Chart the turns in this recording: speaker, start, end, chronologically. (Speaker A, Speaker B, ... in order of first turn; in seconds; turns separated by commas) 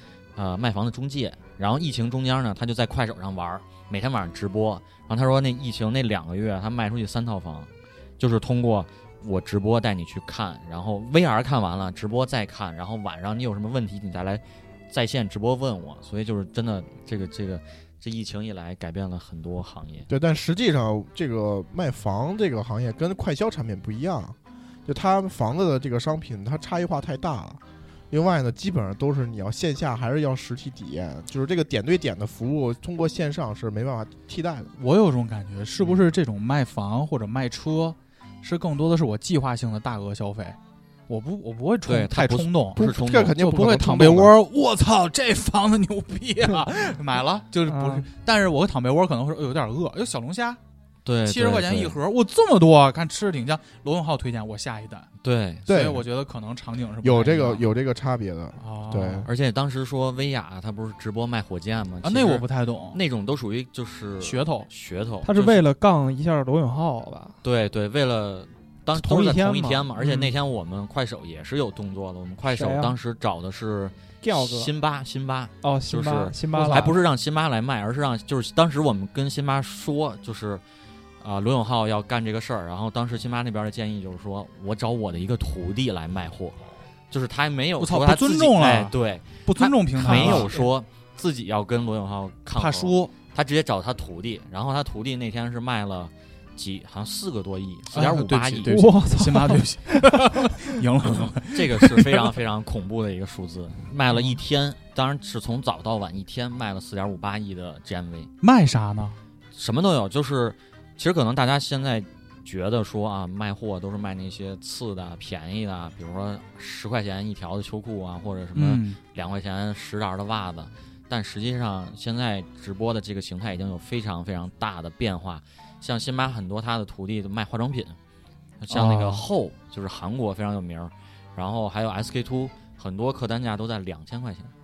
Speaker A: 0.3-20.1, Speaker B: 20.1-34.7, Speaker C: 34.8-50.6, Speaker A: 41.9-43.3, Speaker B: 42.8-44.3, Speaker D: 47.6-48.1, Speaker A: 51.0-52.0, Speaker C: 51.2-55.1, Speaker A: 55.2-55.7, Speaker C: 55.6-57.6, Speaker B: 55.7-56.0, Speaker B: 57.0-59.3, Speaker C: 58.6-59.3, Speaker A: 59.2-65.6, Speaker C: 62.0-63.0, Speaker C: 64.2-64.7, Speaker D: 65.2-67.4, Speaker A: 67.4-80.6, Speaker D: 68.9-70.3, Speaker D: 72.5-73.0, Speaker D: 74.2-74.7, Speaker D: 75.6-77.0, Speaker A: 81.2-86.6, Speaker A: 87.1-98.7, Speaker C: 87.8-90.7, Speaker C: 92.5-93.1, Speaker C: 97.9-102.3, Speaker D: 98.7-100.2, Speaker A: 101.5-108.3, Speaker C: 108.4-109.2, Speaker A: 109.5-128.0, Speaker C: 118.5-119.0, Speaker A: 128.6-134.5, Speaker C: 128.7-129.2